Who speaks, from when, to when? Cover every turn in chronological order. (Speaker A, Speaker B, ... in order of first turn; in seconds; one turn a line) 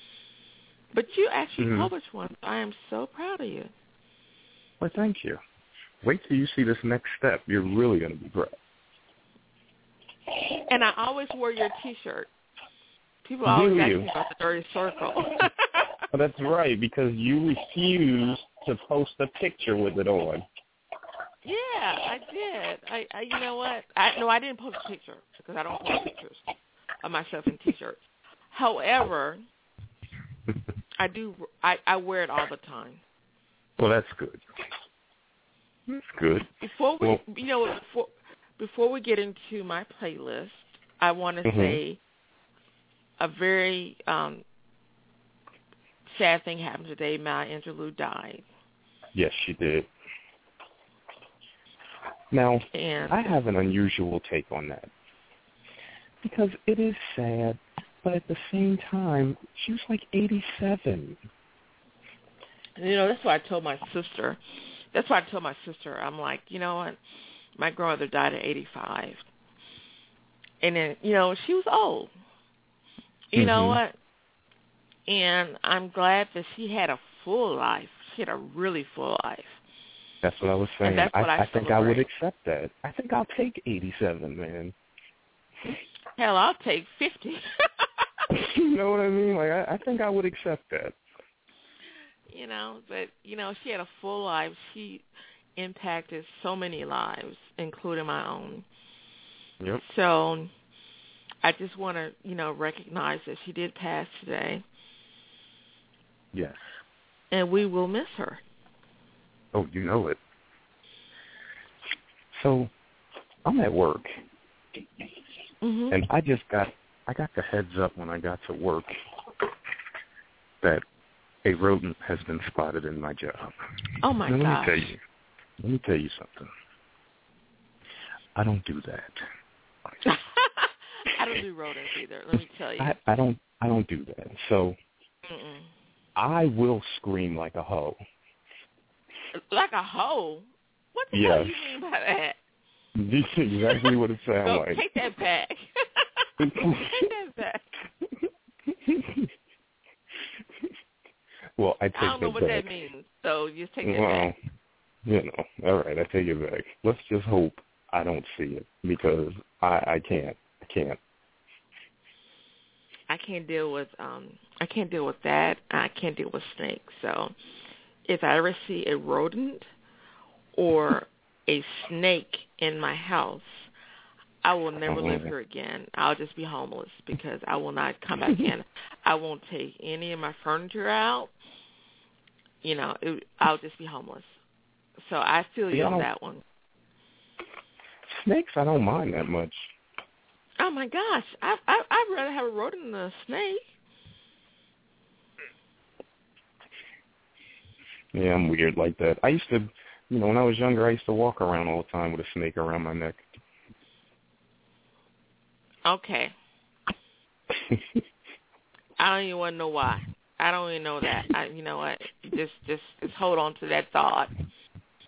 Speaker A: 0.9-3.7
Speaker B: 1.6-1.9
Speaker B: 4.8-5.4
Speaker B: 6.0-8.6
Speaker A: 10.7-12.3
Speaker A: 13.2-15.9
Speaker B: 13.5-14.1
Speaker B: 16.1-20.5
Speaker A: 21.4-26.4
Speaker A: 27.0-29.4
Speaker A: 31.0-33.0
Speaker B: 33.8-34.4
Speaker B: 35.9-37.2
Speaker A: 36.6-42.0
Speaker B: 41.5-41.8
Speaker A: 43.2-44.4
Speaker A: 46.1-48.5
Speaker B: 49.1-49.9
Speaker B: 52.3-54.9
Speaker A: 52.7-53.4
Speaker B: 56.2-61.2
Speaker A: 62.8-64.4
Speaker A: 64.9-67.0
Speaker A: 67.6-69.2
Speaker A: 70.6-72.1
Speaker A: 73.3-74.0
Speaker B: 73.4-73.8
Speaker A: 75.1-79.6
Speaker B: 80.2-84.8
Speaker A: 80.8-82.1
Speaker A: 86.2-87.4
Speaker B: 88.3-91.0
Speaker A: 92.3-95.0
Speaker A: 95.6-98.7
Speaker A: 99.9-100.5
Speaker A: 101.4-104.6
Speaker B: 106.3-106.6
Speaker A: 107.3-108.4
Speaker B: 109.5-110.2
Speaker B: 112.3-112.7
Speaker B: 113.4-114.1
Speaker A: 115.6-116.0
Speaker B: 115.9-118.9
Speaker B: 121.4-123.6
Speaker A: 124.0-124.9
Speaker B: 124.2-125.0
Speaker B: 125.6-126.5
Speaker B: 128.3-129.2
Speaker A: 130.0-133.0
Speaker B: 132.8-134.8
Speaker A: 135.3-135.7
Speaker B: 136.2-138.0
Speaker A: 139.5-142.4
Speaker B: 141.1-141.7
Speaker B: 143.0-144.8
Speaker A: 143.7-143.9
Speaker A: 144.4-147.7
Speaker B: 146.4-147.1
Speaker B: 148.8-149.3
Speaker B: 151.6-152.7
Speaker A: 152.0-154.3
Speaker B: 153.8-154.3
Speaker B: 155.1-161.0
Speaker A: 163.1-167.3
Speaker A: 168.1-169.7
Speaker A: 170.6-173.7
Speaker A: 174.4-181.3
Speaker B: 174.8-175.3
Speaker A: 182.6-184.3
Speaker A: 185.0-186.4
Speaker B: 185.7-186.1
Speaker B: 188.1-189.7
Speaker A: 190.6-193.6
Speaker B: 198.1-203.2
Speaker A: 205.9-206.3
Speaker A: 209.0-214.3